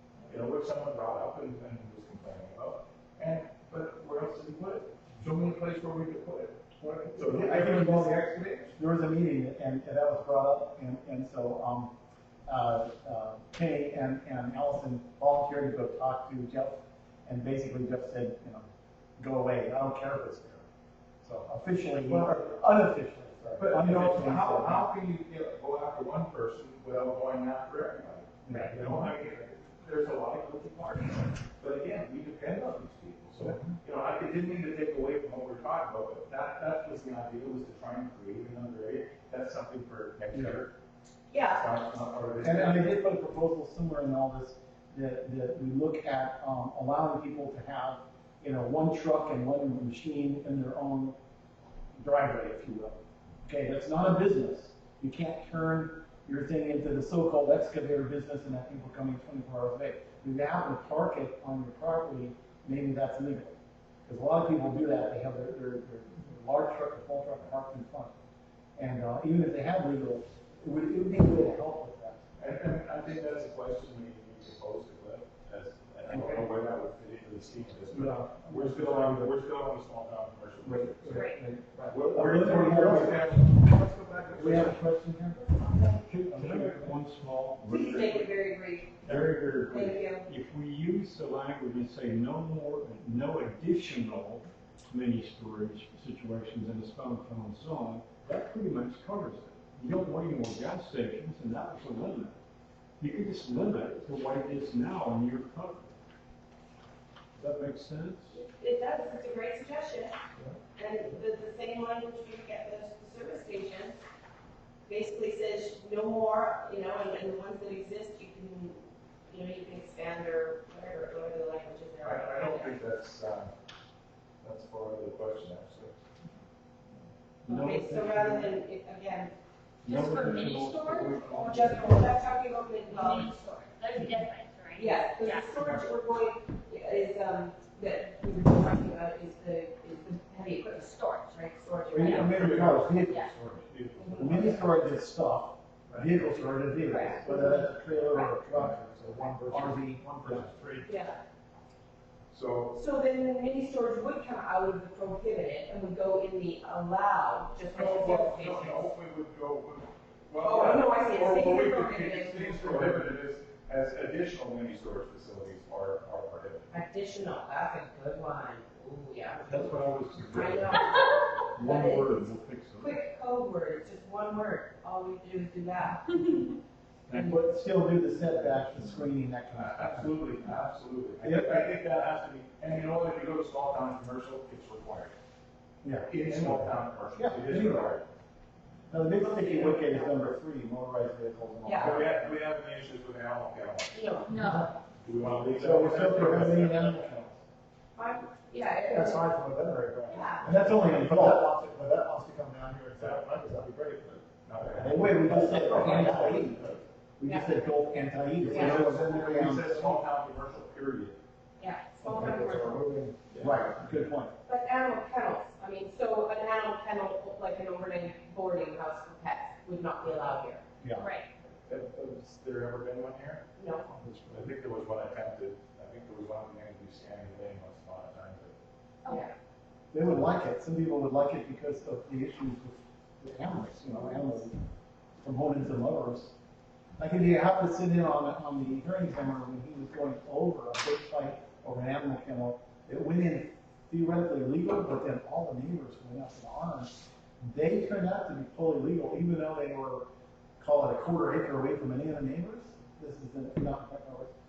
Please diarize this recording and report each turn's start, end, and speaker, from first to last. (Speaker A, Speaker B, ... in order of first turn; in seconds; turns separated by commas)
Speaker A: 0.3-8.8, Speaker B: 6.8-11.9, Speaker B: 12.5-18.6, Speaker B: 19.2-20.6, Speaker B: 21.2-24.9, Speaker A: 22.1-22.4, Speaker A: 23.6-40.7, Speaker B: 28.4-29.1, Speaker B: 33.4-33.7, Speaker B: 40.3-40.6, Speaker C: 41.3-41.6, Speaker A: 41.5-42.9, Speaker B: 42.4-51.2, Speaker B: 52.0-68.1, Speaker B: 68.8-72.2, Speaker A: 72.4-81.3, Speaker B: 76.1-76.5, Speaker B: 77.9-79.3, Speaker B: 80.6-83.5, Speaker D: 81.1-81.4, Speaker A: 81.9-84.8, Speaker B: 84.3-87.0, Speaker E: 86.1-88.1, Speaker D: 86.3-86.9, Speaker C: 87.7-90.3, Speaker D: 87.8-88.2, Speaker E: 89.1-102.3, Speaker E: 103.0-105.9, Speaker E: 107.4-108.3, Speaker C: 108.3-110.2, Speaker C: 110.8-114.0, Speaker C: 114.9-122.8, Speaker A: 122.0-123.5, Speaker A: 124.4-126.0, Speaker C: 127.5-129.3, Speaker D: 127.5-128.5, Speaker E: 127.5-127.8, Speaker D: 129.8-132.2, Speaker E: 129.8-131.4, Speaker C: 129.9-130.2, Speaker C: 131.0-133.4, Speaker D: 132.8-135.7, Speaker C: 134.8-142.4, Speaker D: 140.6-141.4, Speaker B: 141.9-143.2, Speaker A: 142.0-144.9, Speaker C: 144.0-144.6, Speaker B: 144.2-150.6, Speaker A: 145.9-146.2, Speaker C: 146.8-147.7, Speaker A: 147.3-150.9, Speaker C: 150.8-151.2, Speaker A: 152.3-152.8, Speaker C: 152.7-158.9, Speaker A: 157.7-166.7, Speaker C: 160.4-162.9, Speaker C: 166.7-177.4, Speaker E: 169.5-170.8, Speaker E: 171.6-172.9, Speaker B: 177.1-180.2, Speaker A: 179.5-185.1, Speaker B: 181.2-181.7, Speaker B: 185.8-188.0, Speaker A: 186.1-188.0, Speaker B: 188.9-192.4, Speaker C: 189.1-190.3, Speaker C: 191.6-192.0, Speaker A: 191.8-194.0, Speaker C: 193.9-194.4, Speaker D: 194.3-194.7, Speaker B: 194.4-194.7, Speaker A: 195.0-197.0, Speaker B: 195.4-197.4, Speaker C: 197.9-199.3, Speaker F: 199.2-199.4, Speaker A: 199.7-206.7, Speaker F: 200.0-203.2, Speaker C: 200.1-200.5, Speaker B: 200.4-201.5, Speaker B: 204.6-210.0, Speaker C: 207.2-207.5, Speaker A: 208.4-211.2, Speaker C: 208.5-208.8, Speaker C: 211.6-212.8, Speaker B: 212.0-214.3, Speaker A: 212.1-213.7, Speaker C: 214.4-220.6, Speaker B: 220.8-221.1, Speaker D: 221.0-221.2, Speaker A: 221.7-223.4, Speaker C: 223.6-223.9, Speaker B: 224.0-224.5, Speaker A: 224.3-228.6, Speaker C: 229.1-229.3, Speaker B: 229.9-234.5, Speaker B: 235.2-236.3, Speaker B: 237.0-250.1, Speaker B: 250.6-254.3